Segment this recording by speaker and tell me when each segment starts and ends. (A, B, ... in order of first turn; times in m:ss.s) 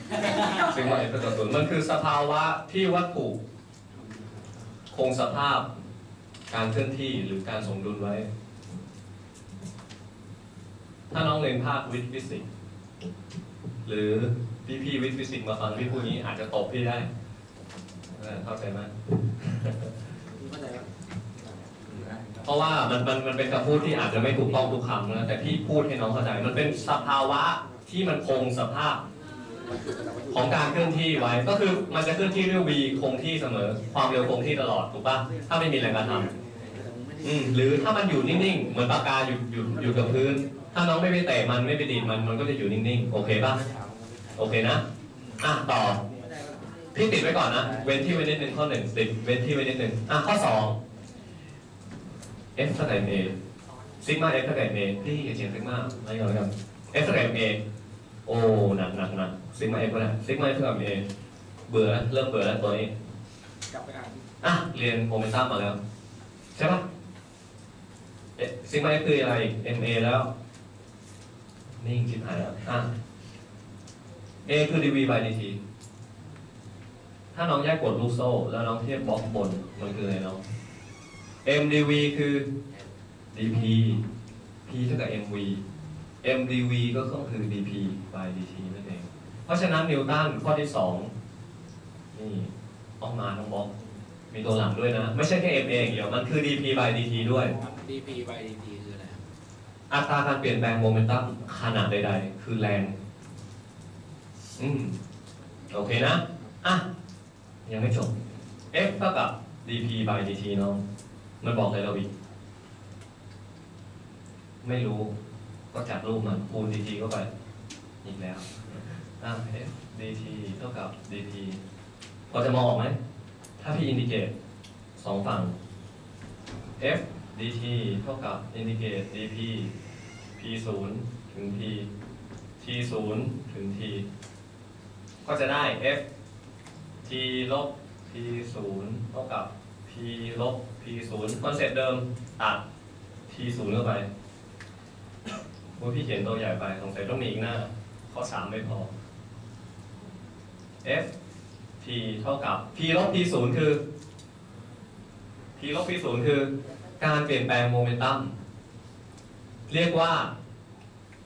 0:00.5-0:03.4 A
0:03.9-0:04.5 B
0:04.9-0:05.7 A
0:06.5-0:08.3 A
0:11.1-0:12.4 A
0:13.8-0:17.1 A
0:18.1-0:20.0 A
0:20.4-0:20.9 B
0:21.7-0:22.5 B
0:22.4-0:29.0 A
0:30.3-0:36.3 A
0:37.2-0:43.6 A
0:44.4-0:44.8 A
0:45.4-0:46.0 A
0:46.9-0:50.8 A
0:52.6-0:53.4 A
0:54.0-0:57.6 A
0:58.3-1:01.1 A
1:01.7-1:02.9 A
1:03.7-1:04.3 B
1:04.4-1:05.8 A
1:06.6-1:06.8 A
1:08.4-1:10.3 A
1:11.8-1:12.9 A
1:14.5-1:15.6 A
1:17.3-1:20.4 A
1:21.4-1:22.5 A
1:23.3-1:24.0 A
1:24.7-1:25.6 A
1:26.2-1:31.1 A
1:32.1-1:33.7 A
1:34.3-1:37.5 A
1:37.6-1:39.2 B
1:39.9-1:43.0 A
1:44.6-1:45.0 A
1:45.7-1:46.8 A
1:47.7-1:48.2 A
1:48.7-1:50.8 A
1:51.4-1:52.1 A
1:54.6-1:55.1 A
1:55.7-1:57.3 A
1:58.0-2:01.6 A
2:02.3-2:03.0 A
2:03.6-2:04.3 A
2:05.0-2:05.6 A
2:06.8-2:09.7 A
2:10.4-2:11.9 A
2:12.6-2:14.1 A
2:15.2-2:16.0 A
2:17.0-2:22.6 A
2:23.3-2:24.1 A
2:25.8-2:28.9 A
2:31.8-2:33.8 A
2:35.6-2:38.3 A
2:39.7-2:40.3 A